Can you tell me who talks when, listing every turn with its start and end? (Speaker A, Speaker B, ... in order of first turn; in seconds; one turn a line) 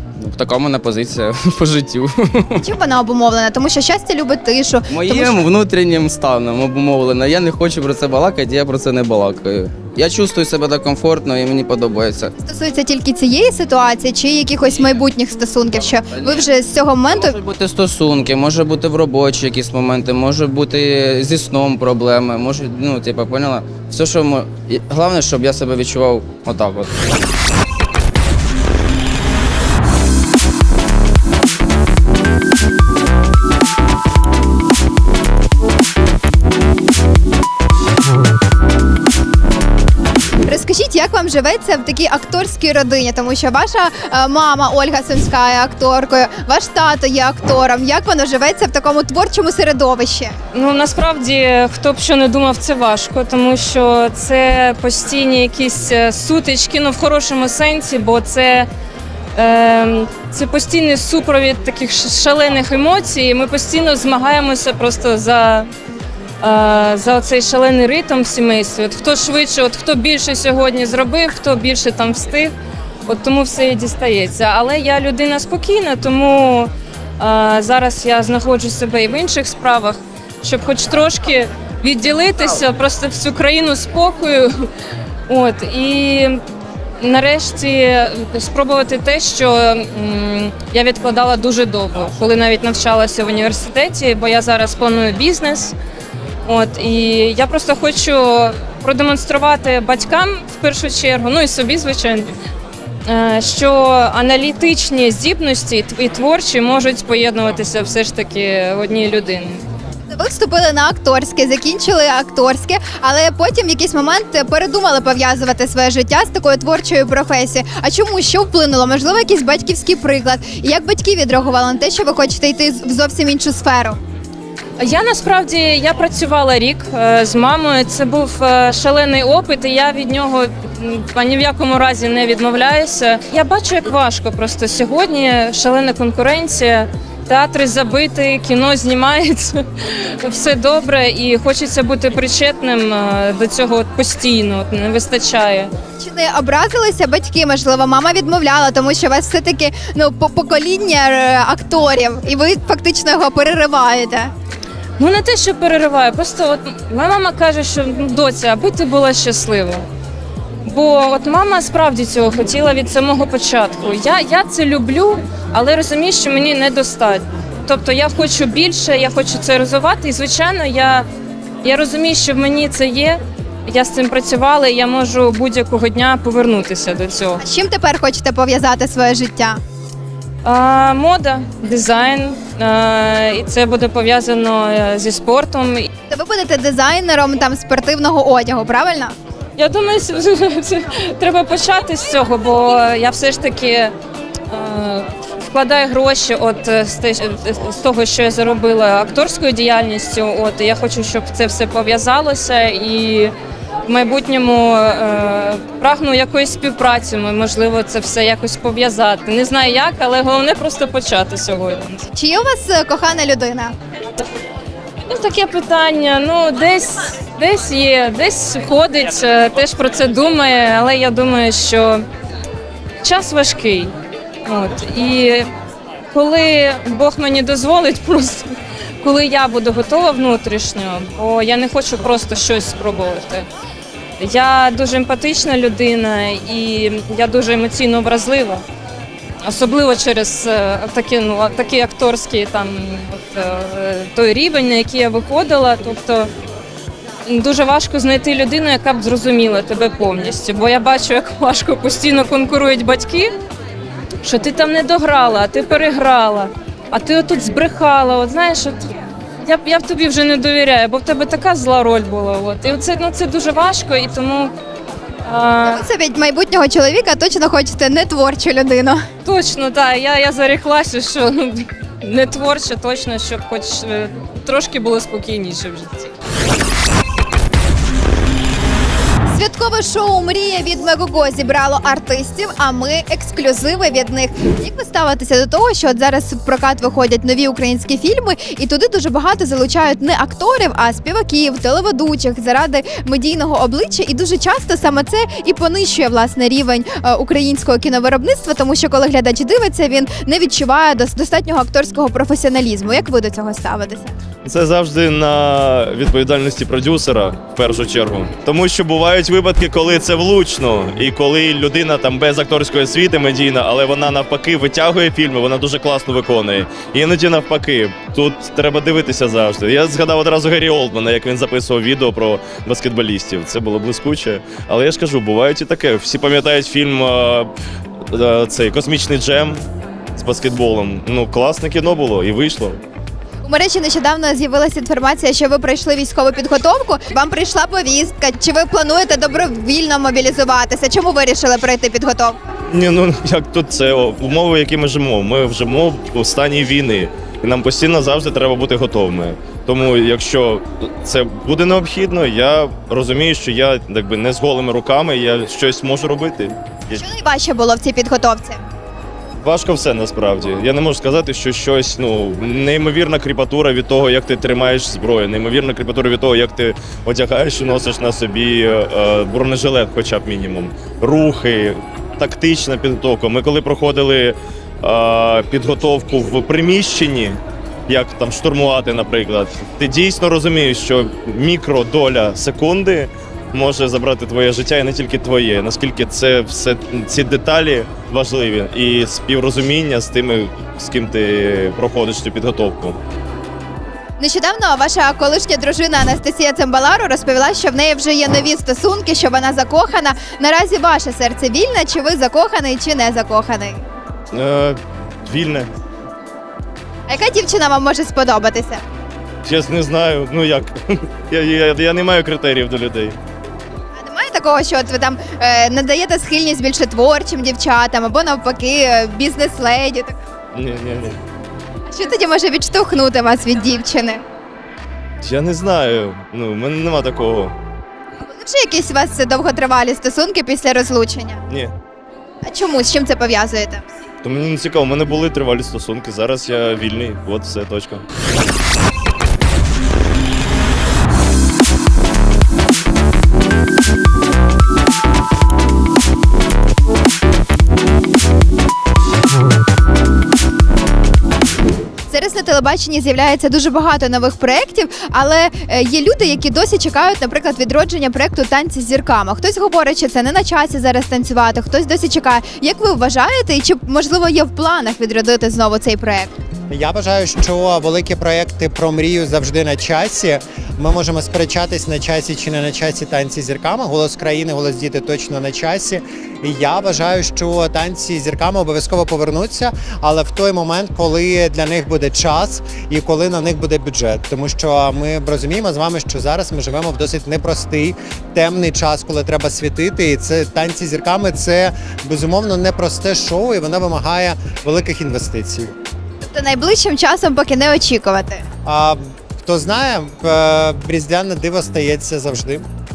Speaker A: 0.2-2.7
Speaker B: 2.6-5.4
Speaker A: 4.9-12.3
Speaker B: 12.4-17.4
Speaker A: 16.1-16.5
Speaker A: 17.1-26.9
Speaker B: 40.5-50.3
Speaker C: 50.5-58.7
Speaker C: 59.4-65.7
Speaker C: 66.4-72.5
Speaker C: 73.1-84.7
Speaker C: 85.3-86.4
Speaker C: 87.0-95.8
Speaker C: 96.5-102.3
Speaker C: 103.1-109.6
Speaker B: 110.1-124.0
Speaker C: 124.8-145.7
Speaker B: 146.0-154.3
Speaker C: 155.0-159.8
Speaker C: 160.6-171.1
Speaker C: 171.6-177.4
Speaker B: 177.4-179.6
Speaker C: 180.4-185.9
Speaker B: 186.1-189.2
Speaker C: 189.6-193.9
Speaker C: 194.5-203.3
Speaker C: 203.9-212.1
Speaker B: 212.1-213.8
Speaker C: 215.1-222.1
Speaker C: 223.0-223.9
Speaker C: 224.4-225.5
Speaker C: 226.1-233.5
Speaker C: 234.2-238.6
Speaker C: 239.4-246.3
Speaker C: 247.3-253.3
Speaker C: 254.2-258.9
Speaker C: 259.4-264.5
Speaker C: 265.2-265.9
Speaker B: 265.7-269.1
Speaker C: 269.2-276.1
Speaker B: 279.3-304.1
Speaker D: 304.4-327.5
Speaker D: 328.1-332.8
Speaker B: 333.4-342.4
Speaker D: 342.7-357.0
Speaker B: 356.9-358.6
Speaker D: 359.4-393.0
Speaker B: 394.2-403.8
Speaker D: 404.3-405.7
Speaker B: 407.1-408.8
Speaker D: 409.4-413.2
Speaker B: 414.0-420.2
Speaker D: 420.5-421.2
Speaker B: 421.9-424.2
Speaker D: 425.2-427.6
Speaker B: 428.2-431.4
Speaker D: 431.5-431.8
Speaker B: 432.4-433.9
Speaker D: 434.2-438.0
Speaker B: 452.1-466.3
Speaker E: 466.7-495.7
Speaker B: 496.2-498.5
Speaker E: 498.6-502.7